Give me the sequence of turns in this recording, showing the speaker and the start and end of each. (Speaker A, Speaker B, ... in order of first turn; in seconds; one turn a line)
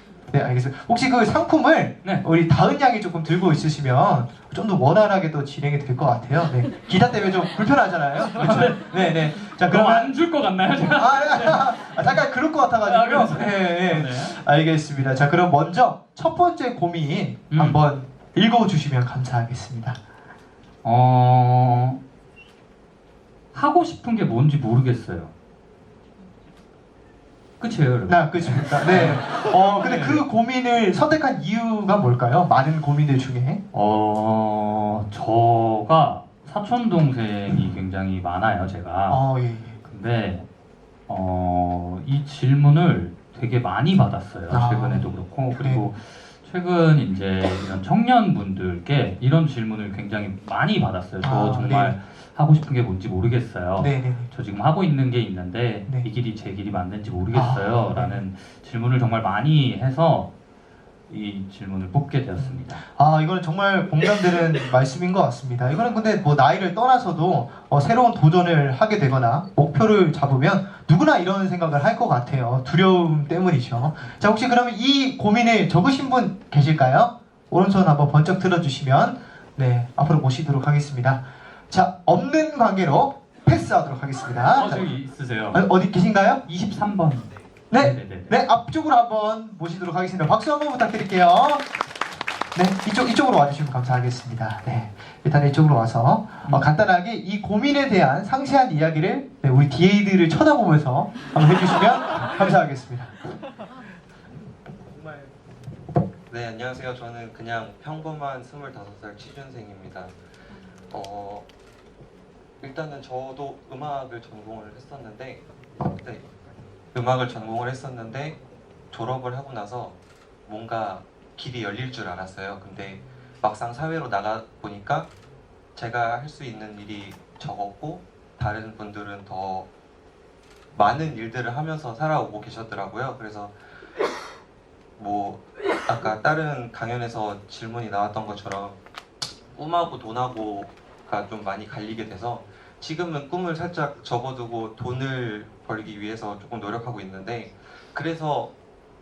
Speaker A: 0.3-10.1
Speaker B: 8.3-12.2
Speaker A: 10.8-20.0
Speaker B: 12.8-14.4
Speaker B: 17.5-17.8
Speaker B: 20.8-22.0
Speaker B: 23.5-25.3
Speaker B: 27.6-30.2
Speaker A: 28.1-33.6
Speaker B: 33.7-39.2
Speaker A: 39.1-39.8
Speaker B: 39.8-40.5
Speaker B: 41.1-60.3
Speaker A: 44.5-45.9
Speaker A: 51.2-51.9
Speaker A: 53.8-54.3
Speaker A: 57.3-58.2
Speaker B: 61.1-62.8
Speaker A: 62.4-84.8
Speaker B: 84.5-85.6
Speaker A: 85.5-86.5
Speaker B: 86.5-88.3
Speaker A: 87.7-91.6
Speaker A: 92.5-103.2
Speaker C: 104.9-105.3
Speaker C: 106.3-110.1
Speaker C: 110.9-111.5
Speaker C: 112.6-116.3
Speaker C: 116.9-118.4
Speaker C: 118.9-125.1
Speaker C: 125.7-129.7
Speaker C: 130.7-133.5
Speaker C: 135.0-138.8
Speaker C: 139.5-148.5